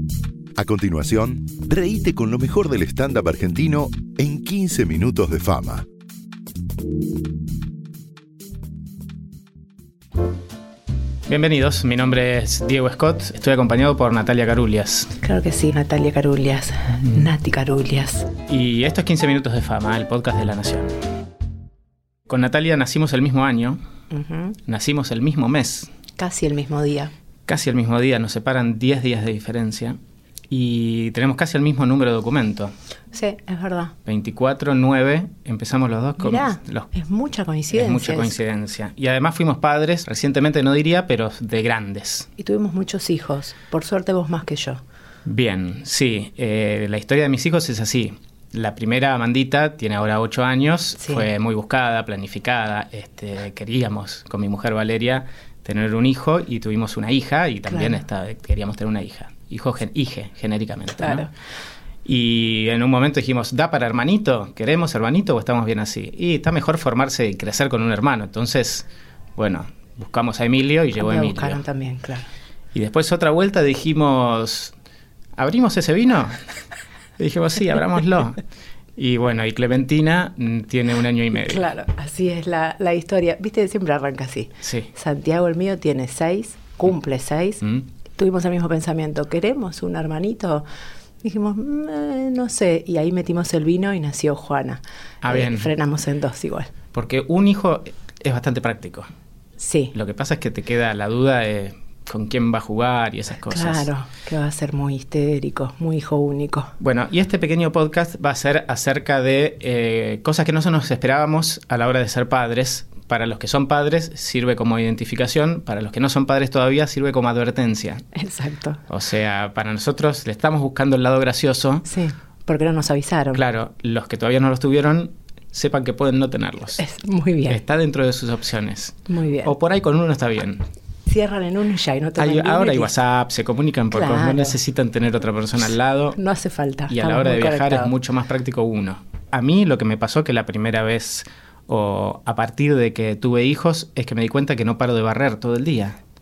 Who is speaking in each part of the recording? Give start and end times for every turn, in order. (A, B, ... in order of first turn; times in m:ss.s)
0:00.6-0:05.8 A
0:11.3-0:15.1 B
0:15.2-0:18.3 C
0:18.5-0:20.9 B
0:22.3-0:23.8 B
0:24.1-0:24.6 C
0:24.7-0:25.9 B
0:26.2-0:27.1 C
0:27.5-0:30.0 B
0:30.5-0:32.7 B
0:33.1-0:33.9 C
0:34.0-0:36.9 B
0:36.2-0:38.4 C
0:37.7-0:42.3 B
0:42.4-0:44.8 C
0:45.2-1:01.3 B
0:51.0-0:51.3 C
0:57.7-0:58.0 C
1:01.0-1:01.3 C
1:02.0-1:08.8 B
1:09.4-1:11.6 B
1:11.0-1:12.3 C
1:12.7-1:14.7 B
1:15.4-1:16.4 B
1:17.2-1:18.4 B
1:19.0-1:21.6 B
1:21.3-1:27.6 C
1:24.6-1:24.9 B
1:28.1-1:30.6 C
1:31.2-1:36.7 C
1:35.2-1:35.7 B
1:36.9-1:39.1 B
1:39.6-1:39.9 C
1:39.9-1:43.9 B
1:43.5-1:46.7 C
1:46.8-1:58.0 B
1:58.1-1:58.8 C
1:58.9-2:01.8 B
2:01.8-2:03.4 C
2:03.3-2:06.8 B
2:06.8-2:07.6 C
2:07.5-2:10.6 B
2:09.1-2:09.5 C
2:11.1-2:12.9 C
2:12.2-2:16.2 B
2:13.9-2:14.6 C
2:16.1-2:17.9 C
2:16.9-2:26.0 B